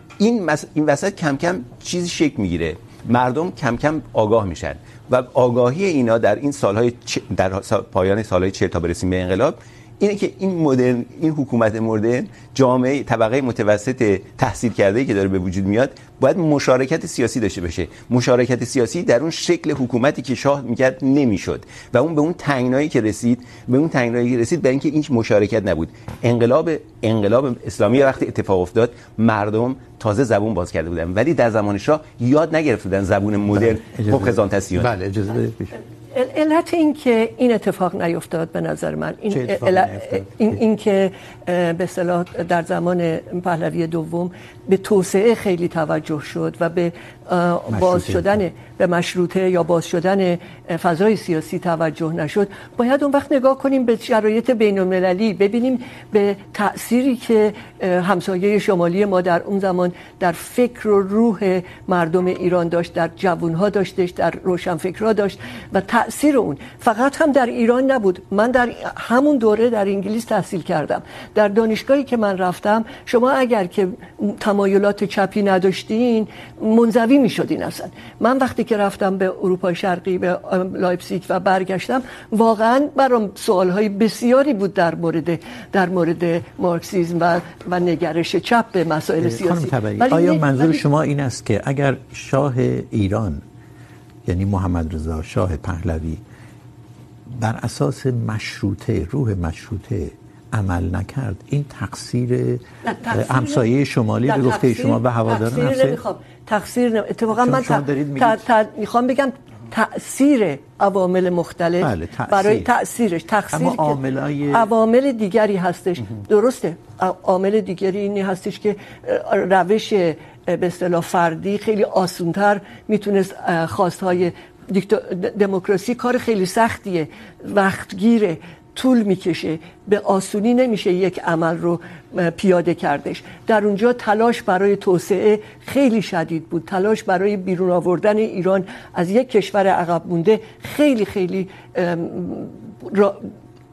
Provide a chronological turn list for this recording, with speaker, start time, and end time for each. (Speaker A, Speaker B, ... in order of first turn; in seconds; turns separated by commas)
Speaker A: 0.2-34.9, Speaker B: 33.5-35.8, Speaker C: 36.1-90.8, Speaker B: 39.3-40.6, Speaker B: 47.7-48.3, Speaker B: 89.2-93.4, Speaker B: 94.2-96.2, Speaker B: 97.3-106.0, Speaker C: 102.8-103.7, Speaker C: 104.2-143.3, Speaker B: 107.3-108.4, Speaker B: 111.8-112.7, Speaker B: 113.5-114.7